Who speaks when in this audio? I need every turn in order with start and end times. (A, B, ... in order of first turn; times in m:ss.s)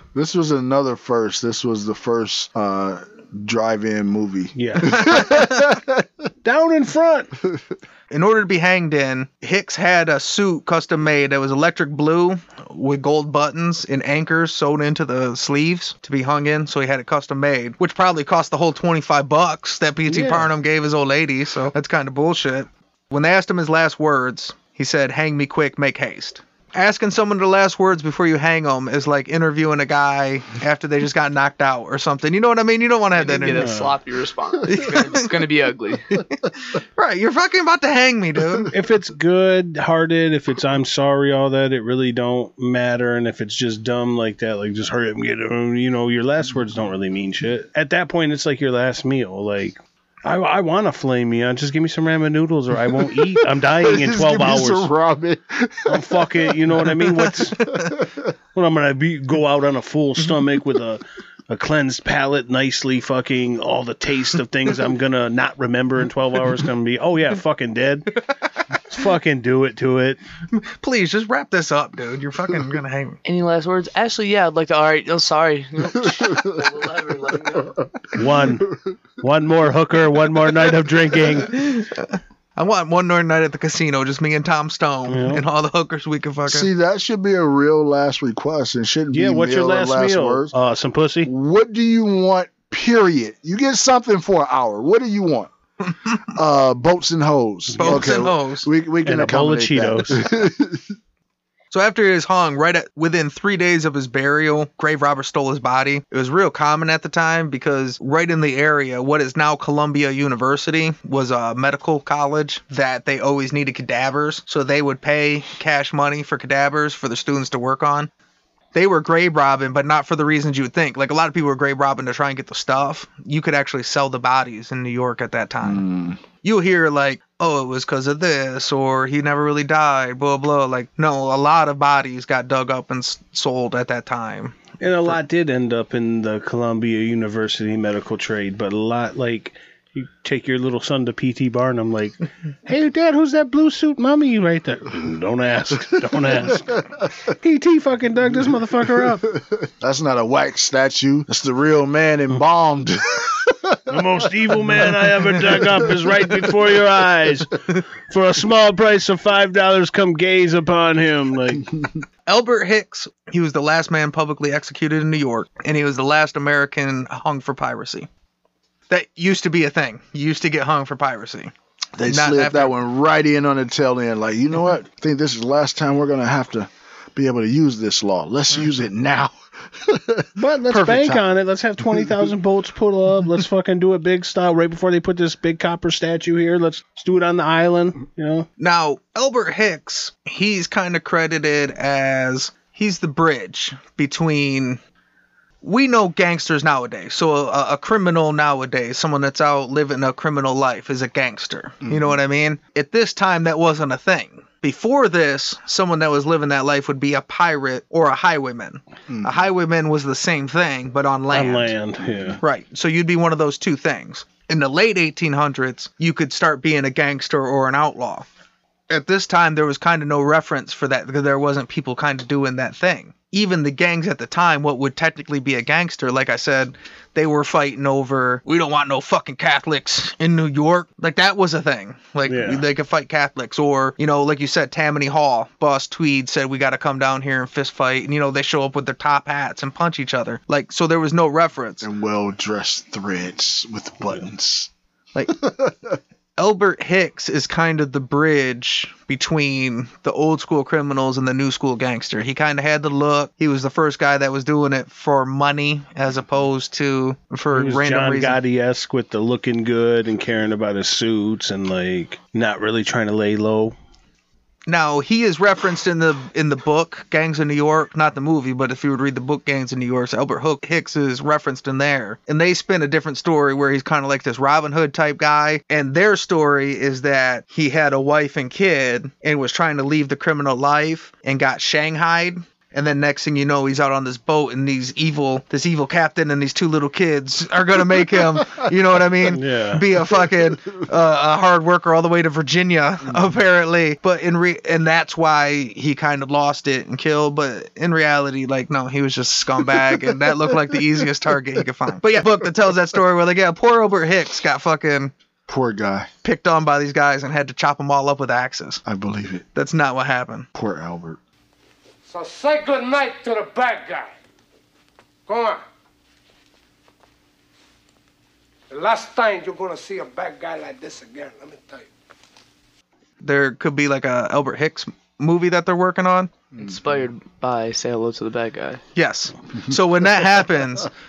0:00.1-0:06.0 A
0:04.5-0:05.3 B
0:06.4-0:07.3 B
0:08.1-0:33.7 C
0:20.0-0:20.5 B
0:33.2-0:36.2 D
0:33.5-0:34.0 B
0:34.6-0:35.3 C
0:36.3-0:38.7 C
0:38.7-0:54.9 B
0:53.0-0:56.6 A
0:55.9-0:57.6 B
0:57.6-0:57.9 C
0:58.5-1:08.2 B
1:08.9-1:10.2 B
1:10.5-1:13.2 C
1:13.2-1:17.9 D
1:18.1-1:21.6 B
1:21.5-1:26.7 C
1:25.1-1:25.4 B
1:26.5-1:30.5 A
1:29.1-1:31.3 B
1:31.2-1:35.5 A
1:36.3-1:40.9 A
1:37.7-1:38.2 B
1:37.8-1:38.7 C
1:39.0-1:40.2 B
1:41.7-1:58.1 C
1:58.7-2:05.8 C
2:05.6-2:06.2 A
2:06.4-2:15.2 C
2:14.8-2:29.3 B
2:26.4-2:27.0 A
2:29.5-2:33.8 A
2:33.9-2:37.6 B
2:34.6-2:36.5 A
2:38.1-2:41.7 B
2:42.3-2:48.1 C
2:48.9-2:51.5 C
2:52.0-3:01.3 A
2:52.0-2:52.7 C
3:00.4-3:08.5 B
3:01.8-3:02.3 A
3:08.6-3:14.8 C
3:15.6-3:31.7 C
3:21.8-3:22.2 A
3:29.1-3:29.5 A
3:31.3-3:32.4 B
3:32.4-3:38.2 C
3:38.9-4:01.9 C
3:52.3-3:52.6 B
4:01.8-4:04.7 A
4:05.3-4:06.0 A
4:06.4-4:18.4 C
4:17.5-4:23.7 B
4:24.7-5:05.1 C
4:49.3-4:49.8 B
4:53.0-4:53.4 A
5:05.5-5:06.1 A
5:06.2-5:08.8 C
5:08.8-5:09.4 A
5:09.5-5:10.5 C
5:10.5-5:11.2 A
5:12.1-5:14.1 E
5:15.3-5:15.6 E
5:18.7-5:21.9 E
5:23.2-5:26.3 C
5:26.5-5:26.8 A
5:26.6-5:28.8 D
5:29.0-5:30.9 C